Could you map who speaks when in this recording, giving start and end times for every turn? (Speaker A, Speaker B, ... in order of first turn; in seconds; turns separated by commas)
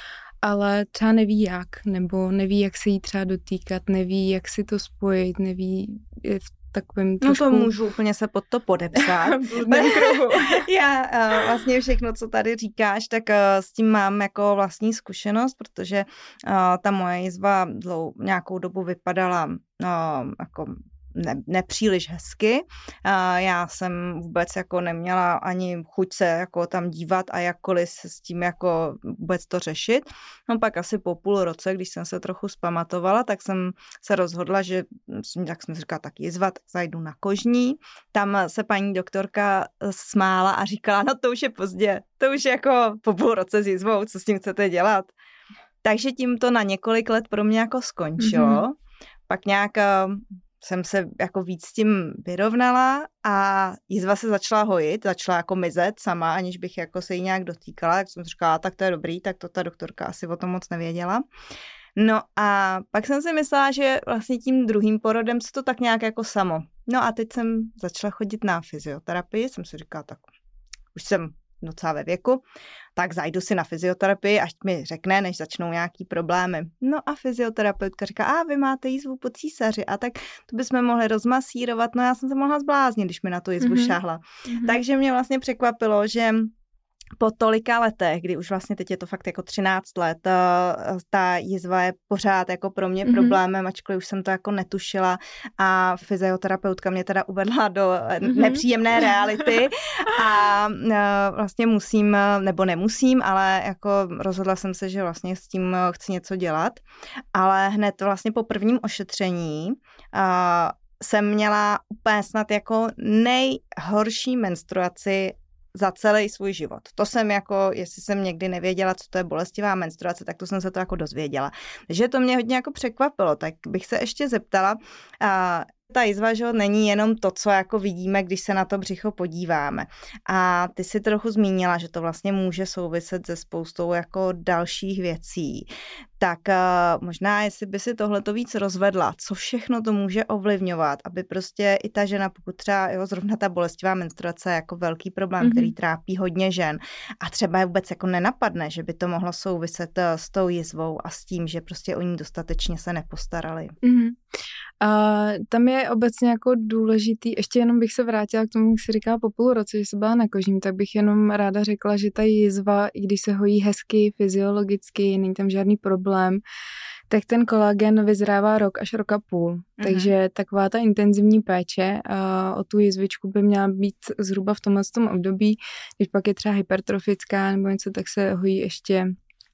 Speaker A: 0.4-7.7, Speaker B: 7.2-45.1, Speaker A: 9.0-10.6, Speaker B: 45.8-48.8, Speaker A: 48.2-48.6, Speaker B: 49.3-61.2, Speaker B: 62.0-70.2, Speaker B: 71.0-72.4, Speaker B: 73.0-86.5, Speaker A: 83.6-84.0, Speaker A: 84.5-84.8, Speaker B: 87.2-106.8, Speaker A: 93.1-93.4, Speaker A: 98.3-98.6, Speaker B: 107.3-135.7, Speaker B: 136.2-153.8, Speaker A: 145.4-145.7, Speaker A: 153.8-154.2, Speaker A: 154.8-166.4, Speaker A: 167.1-179.1, Speaker B: 169.8-170.1